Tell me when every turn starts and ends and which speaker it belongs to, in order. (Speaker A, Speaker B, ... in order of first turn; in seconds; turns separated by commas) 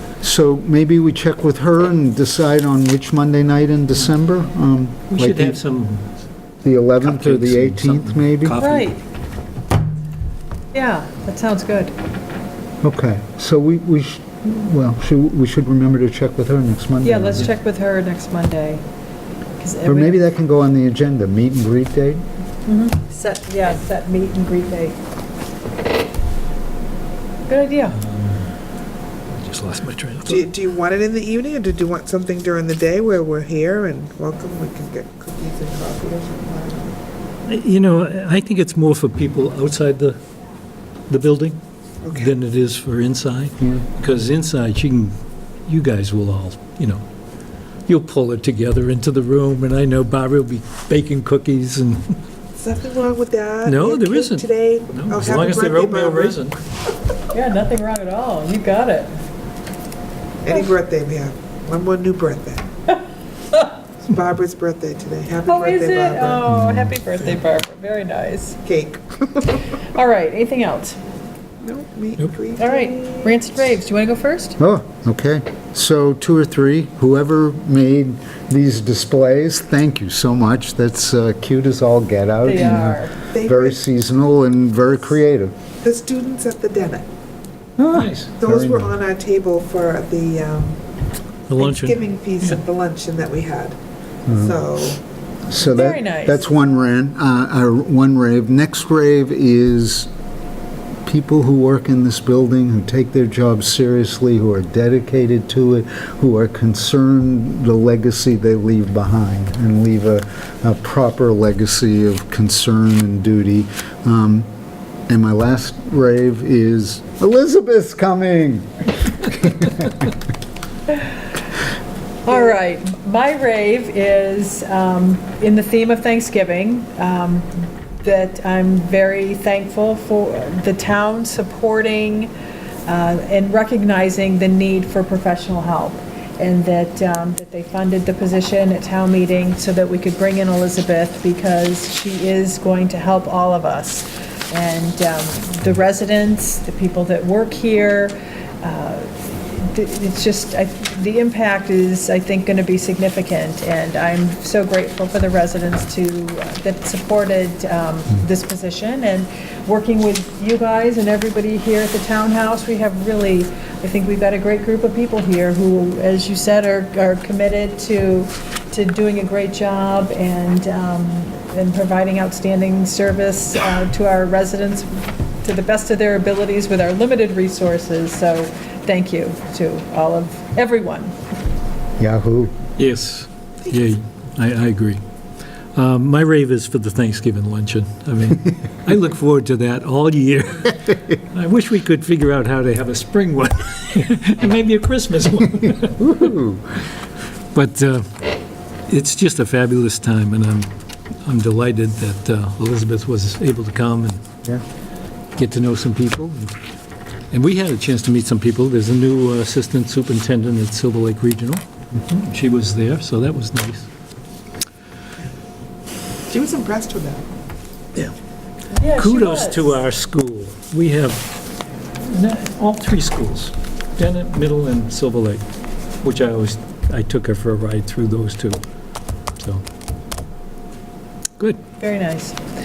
Speaker A: 0.2-5.6, Speaker B: 5.1-6.0, Speaker A: 6.6-8.6, Speaker B: 7.0-9.0, Speaker C: 8.6-9.0, Speaker C: 10.7-11.9, Speaker A: 12.8-17.5, Speaker C: 17.0-18.8, Speaker C: 19.6-20.2, Speaker A: 19.9-22.2, Speaker C: 22.7-25.0, Speaker C: 27.5-28.0, Speaker B: 27.9-28.5, Speaker B: 29.3-30.5, Speaker D: 30.3-37.0, Speaker B: 37.5-40.2, Speaker B: 41.1-41.6, Speaker D: 42.0-42.3, Speaker B: 42.1-47.0, Speaker B: 47.9-52.2, Speaker D: 52.6-56.5, Speaker B: 53.7-56.6, Speaker C: 57.3-59.1, Speaker D: 60.4-62.7, Speaker D: 64.0-66.5, Speaker C: 65.5-68.6, Speaker A: 66.5-66.9, Speaker D: 68.7-69.7, Speaker C: 69.5-71.0, Speaker D: 71.6-73.3, Speaker C: 72.6-74.6, Speaker A: 74.6-85.5, Speaker C: 82.4-83.1, Speaker D: 83.3-83.8, Speaker D: 85.8-87.0, Speaker A: 87.8-89.0, Speaker B: 87.9-88.3, Speaker D: 88.4-90.8, Speaker B: 91.5-92.6, Speaker D: 91.6-93.8, Speaker A: 94.3-94.7, Speaker D: 94.3-95.0, Speaker A: 95.5-100.1, Speaker C: 95.6-96.4, Speaker A: 101.1-114.5, Speaker A: 115.1-120.0, Speaker C: 122.2-127.5, Speaker C: 128.0-132.3, Speaker C: 132.9-181.1, Speaker A: 182.0-182.5, Speaker B: 182.8-185.0, Speaker B: 185.8-196.3, Speaker A: 196.0-196.7, Speaker B: 197.5-198.2, Speaker B: 198.9-200.7, Speaker B: 201.2-204.2, Speaker B: 205.3-206.5, Speaker B: 207.3-213.9, Speaker D: 216.3-217.3, Speaker C: 218.7-219.8, Speaker B: 218.8-221.3, Speaker B: 222.0-225.4, Speaker B: 226.0-228.6, Speaker B: 229.4-229.6, Speaker C: 231.8-232.4